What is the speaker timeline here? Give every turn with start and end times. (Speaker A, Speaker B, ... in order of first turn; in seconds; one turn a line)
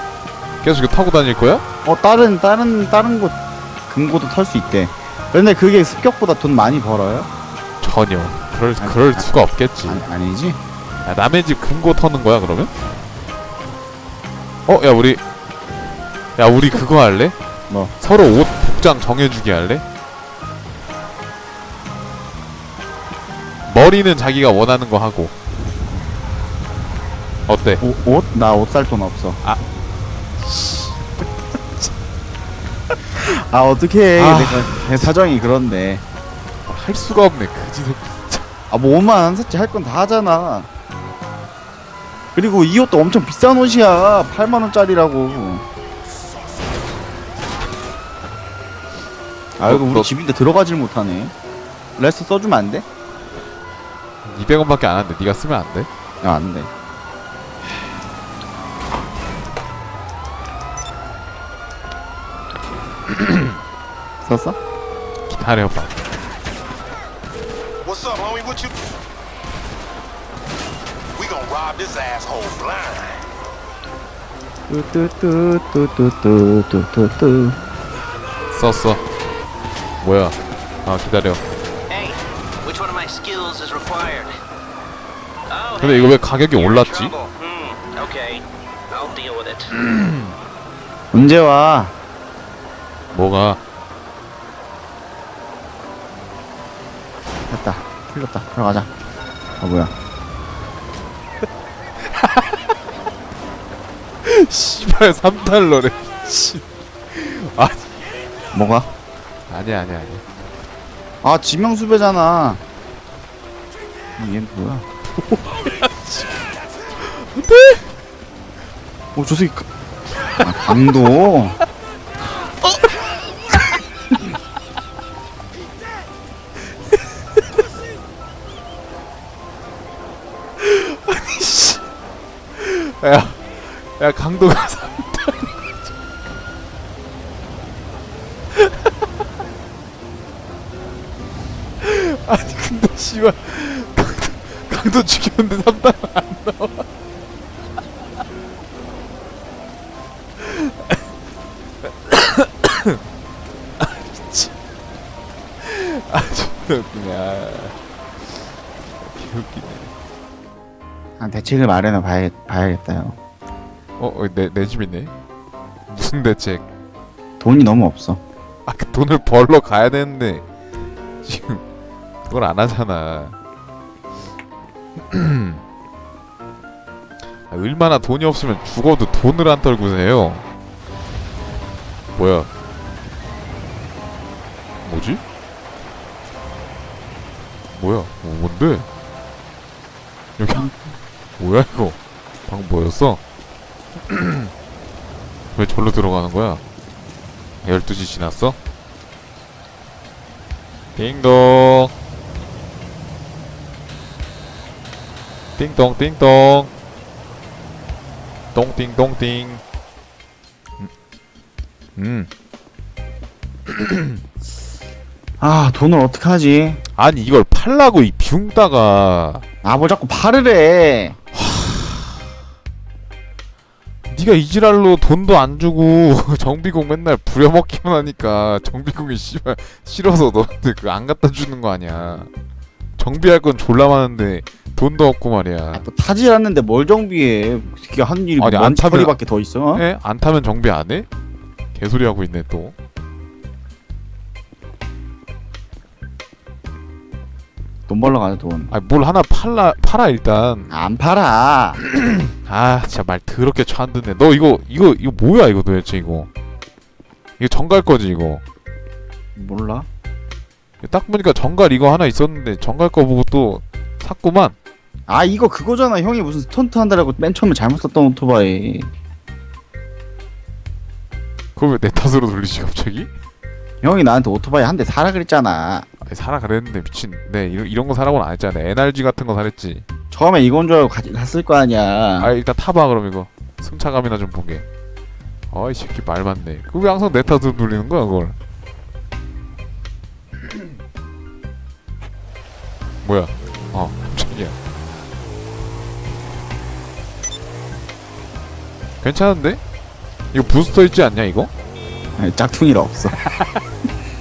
Speaker A: 0.6-1.6
Speaker B: 1.9-3.4
Speaker B: 3.9-7.3
Speaker A: 7.8-10.0
Speaker B: 8.8-9.3
Speaker B: 9.8-10.6
Speaker A: 11.0-12.7
Speaker A: 14.7-15.2
Speaker A: 16.4-17.4
Speaker A: 18.0-19.9
Speaker A: 23.6-25.4
Speaker A: 27.5-27.8
Speaker B: 27.8-29.4
Speaker A: 30.4-31.9
Speaker B: 33.1-36.0
Speaker A: 34.1-35.1
Speaker A: 36.6-38.5
Speaker B: 38.7-40.7
Speaker B: 42.4-45.6
Speaker B: 49.6-51.3
Speaker A: 49.6-50.1
Speaker B: 52.0-52.9
Speaker A: 54.2-55.9
Speaker B: 56.2-56.7
Speaker A: 63.1-63.5
Speaker B: 64.2-64.6
Speaker A: 65.3-65.9
Speaker C: 67.8-68.8
Speaker C: 71.1-73.2
Speaker B: 74.7-77.6
Speaker A: 78.5-79.0
Speaker A: 80.0-81.4
Speaker D: 81.9-84.3
Speaker D: 85.5-89.7
Speaker A: 85.8-87.1
Speaker A: 89.8-90.3
Speaker B: 91.1-91.9
Speaker A: 93.1-93.6
Speaker B: 97.5-98.9
Speaker B: 99.6-99.9
Speaker A: 102.0-102.7
Speaker A: 104.2-108.2
Speaker B: 108.5-108.9
Speaker A: 109.5-110.2
Speaker B: 111.2-112.6
Speaker B: 114.2-114.8
Speaker A: 115.2-117.9
Speaker B: 119.1-119.7
Speaker B: 120.4-121.6
Speaker A: 130.6-131.9
Speaker A: 132.5-135.5
Speaker A: 138.5-139.1
Speaker A: 141.8-146.9
Speaker A: 150.4-151.0
Speaker A: 151.8-153.0
Speaker A: 153.8-154.5
Speaker A: 155.6-157.8
Speaker A: 159.0-159.9
Speaker B: 161.2-163.2
Speaker A: 164.0-165.1
Speaker A: 165.9-166.6
Speaker B: 167.4-168.2
Speaker A: 168.7-170.4
Speaker A: 171.2-171.6
Speaker A: 172.2-173.3
Speaker A: 175.1-175.6
Speaker A: 177.5-180.4
Speaker A: 182.1-182.5
Speaker A: 184.8-185.2
Speaker A: 187.7-188.9
Speaker A: 190.4-190.8
Speaker A: 191.4-193.2
Speaker A: 194.1-194.5
Speaker A: 195.5-196.6
Speaker A: 197.6-198.6
Speaker A: 200.9-201.9
Speaker A: 205.6-206.7
Speaker A: 208.5-209.6
Speaker A: 211.9-212.3
Speaker A: 213.7-214.2
Speaker B: 215.4-216.8
Speaker A: 216.9-219.4
Speaker B: 219.6-221.2
Speaker A: 221.3-222.2
Speaker A: 224.1-232.3
Speaker A: 233.0-235.8
Speaker B: 235.7-239.8
Speaker A: 238.4-239.1
Speaker A: 239.7-241.1
Speaker A: 241.7-242.8
Speaker B: 247.9-248.7
Speaker A: 248.7-250.7
Speaker B: 250.7-251.8
Speaker A: 251.8-256.3
Speaker A: 257.4-258.4
Speaker B: 259.4-259.9
Speaker A: 260.8-264.5
Speaker B: 265.1-268.9
Speaker A: 271.6-273.1
Speaker B: 273.8-275.9
Speaker A: 276.0-279.9
Speaker B: 280.1-282.3
Speaker A: 282.2-284.6
Speaker A: 285.5-288.4
Speaker A: 293.0-294.6
Speaker A: 299.0-299.6
Speaker A: 300.3-301.5
Speaker B: 302.2-303.2
Speaker A: 303.2-303.6